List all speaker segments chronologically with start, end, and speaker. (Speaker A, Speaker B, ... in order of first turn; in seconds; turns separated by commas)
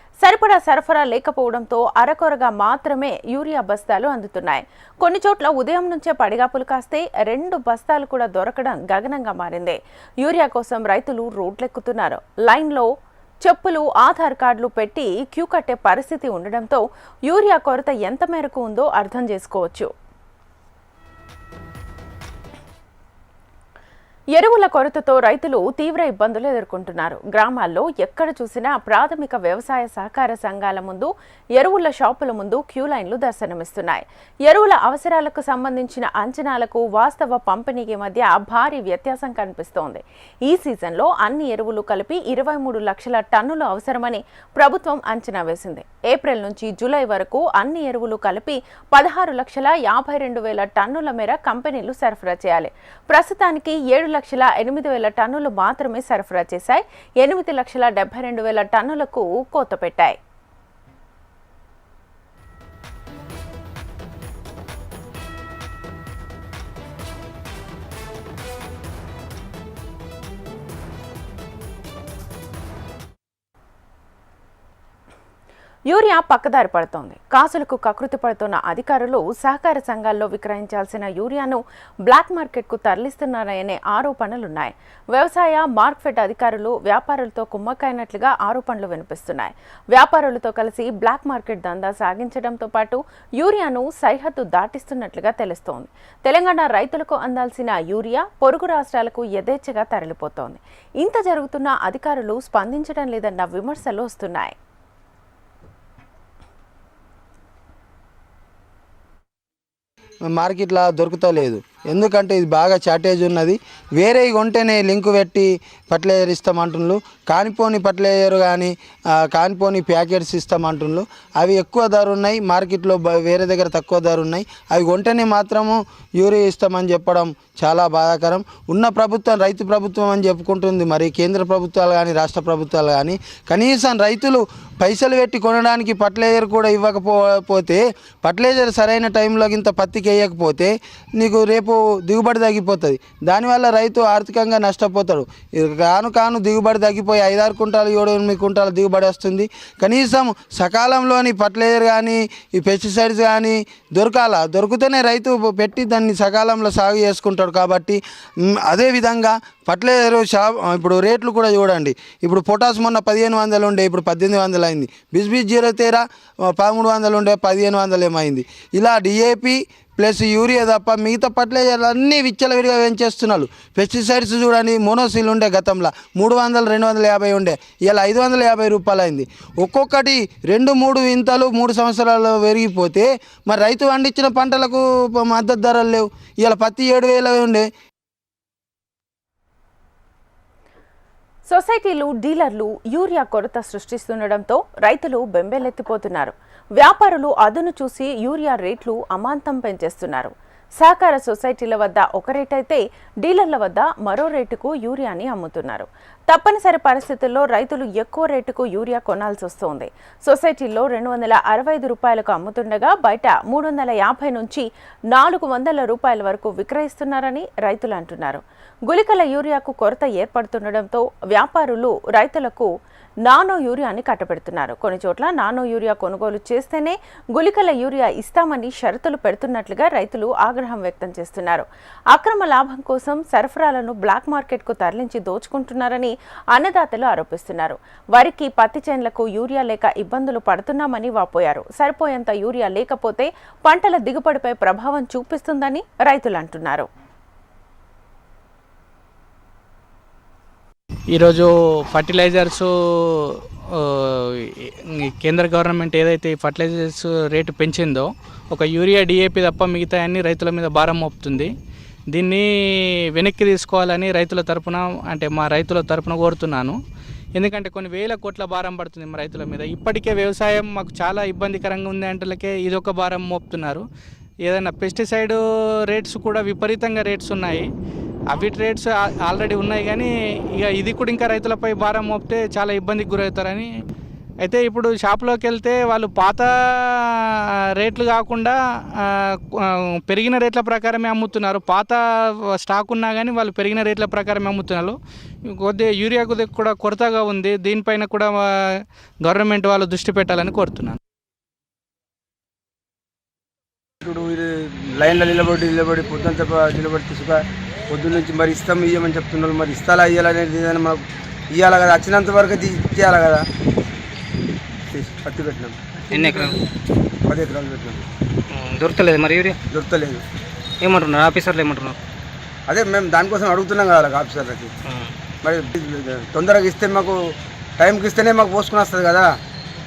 Speaker A: 0.2-12.9, Speaker A: 13.4-19.9, Speaker A: 24.3-60.2, Speaker A: 75.9-104.5, Speaker B: 110.3-158.0, Speaker B: 158.7-187.7, Speaker A: 191.5-222.7, Speaker A: 223.2-246.9, Speaker C: 251.1-254.7, Speaker C: 255.2-261.5, Speaker C: 262.1-262.4, Speaker C: 263.2-266.8, Speaker C: 267.4-273.8, Speaker C: 274.4-275.4, Speaker C: 275.9-277.6, Speaker C: 278.3-283.7, Speaker C: 284.4-287.2, Speaker C: 287.8-292.0, Speaker C: 292.6-295.0, Speaker C: 295.6-301.0, Speaker D: 304.0-313.4, Speaker D: 314.9-315.8, Speaker E: 316.1-316.6, Speaker D: 317.3-318.0, Speaker E: 318.5-319.6, Speaker D: 319.7-320.2, Speaker E: 320.8-322.0, Speaker D: 322.7-324.7, Speaker E: 324.8-325.1, Speaker D: 325.4-327.1, Speaker D: 327.8-329.3